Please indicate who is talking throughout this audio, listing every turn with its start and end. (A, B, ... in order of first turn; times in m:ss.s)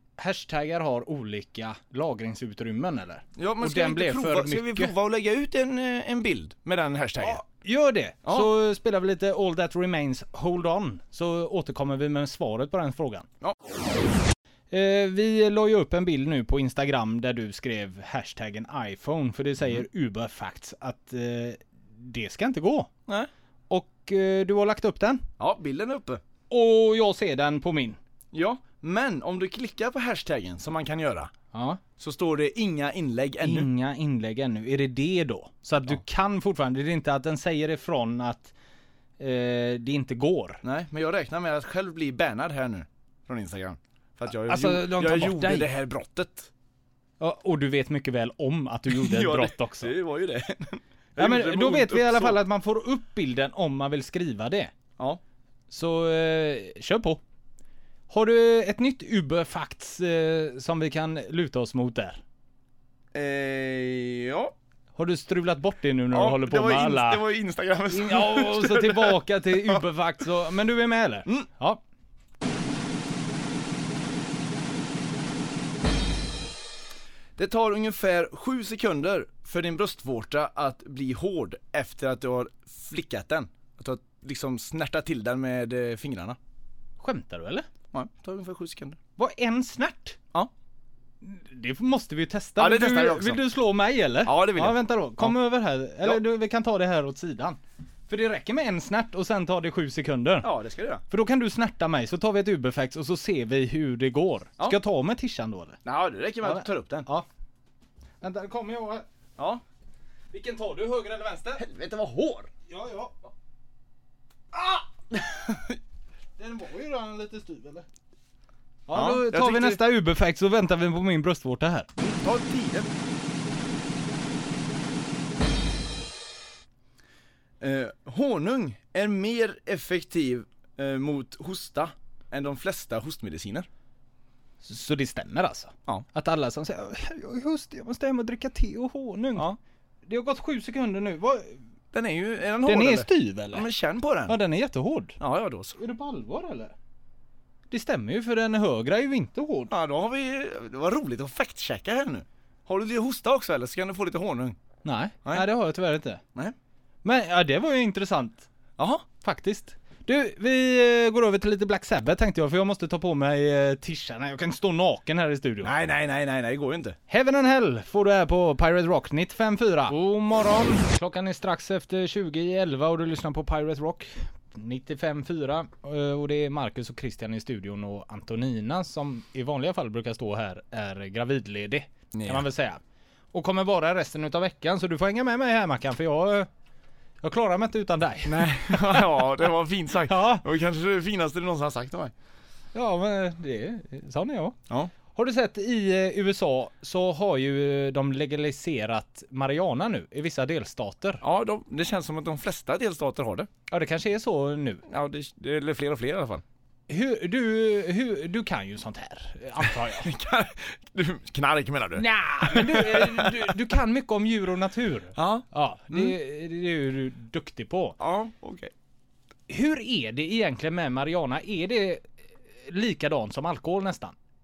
0:00.2-0:04.9 A
0:03.4-0:07.4 B
0:07.2-0:13.3 A
0:08.2-0:08.5 B
0:14.7-0:22.9 A
0:23.7-0:25.2 A
0:25.4-0:26.2 B
0:26.5-0:28.0 A
0:28.3-0:31.3 B
0:31.5-0:31.8 A
0:32.0-0:33.7 B
0:33.4-0:38.5 A
0:39.2-0:40.6 A
0:40.6-0:46.5 B
0:44.4-0:45.7 A
0:47.2-0:49.9 A
0:48.9-0:52.4 B
0:51.2-0:54.7 A
0:55.7-0:57.2 A
0:58.1-1:02.2 A
1:03.1-1:04.5 B
1:04.9-1:07.2 A
1:06.1-1:09.8 B
1:07.9-1:11.8 A
1:17.4-1:26.4 B
1:27.0-1:27.7 A
1:27.9-1:29.0 B
1:29.2-1:30.2 A
1:31.2-1:40.5 A
1:32.6-1:33.4 B
1:34.2-1:35.3 B
1:40.4-1:41.0 B
1:41.1-1:45.8 A
1:45.8-1:47.1 B
1:46.4-1:47.2 A
1:48.2-1:49.0 A
1:50.3-1:51.6 A
1:51.6-1:52.5 B
1:52.7-1:53.2 A
1:55.1-1:55.7 B
1:56.4-1:57.8 A
1:58.9-2:01.9 A
1:58.9-1:59.8 B
2:02.0-2:02.9 B
2:07.6-2:13.7 B
2:14.6-2:21.6 A
2:21.9-2:24.4 B
2:22.6-2:23.7 A
2:24.3-2:25.2 A
2:25.2-2:25.8 B
2:25.8-2:26.7 A
2:27.7-2:29.7 A
2:29.7-2:34.6 B
2:34.8-2:36.2 A
2:37.0-2:38.5 A
2:38.8-2:39.0 B
2:39.2-2:45.7 A
2:45.6-2:47.0 B
2:47.1-3:02.8 A
3:02.1-3:02.4 B
3:03.3-3:06.5 A
3:07.2-3:09.3 A
3:08.2-3:12.1 B
3:10.0-3:10.4 A
3:12.7-3:14.6 A
3:15.1-3:21.2 A
3:21.2-3:23.5 B
3:23.7-3:24.8 A
3:24.9-3:26.4 B
3:26.9-3:30.1 A
3:29.6-3:33.5 B
3:32.0-3:38.0 A
3:35.1-3:36.1 B
3:38.0-3:38.7 B
3:39.5-3:42.1 A
3:42.6-3:44.1 A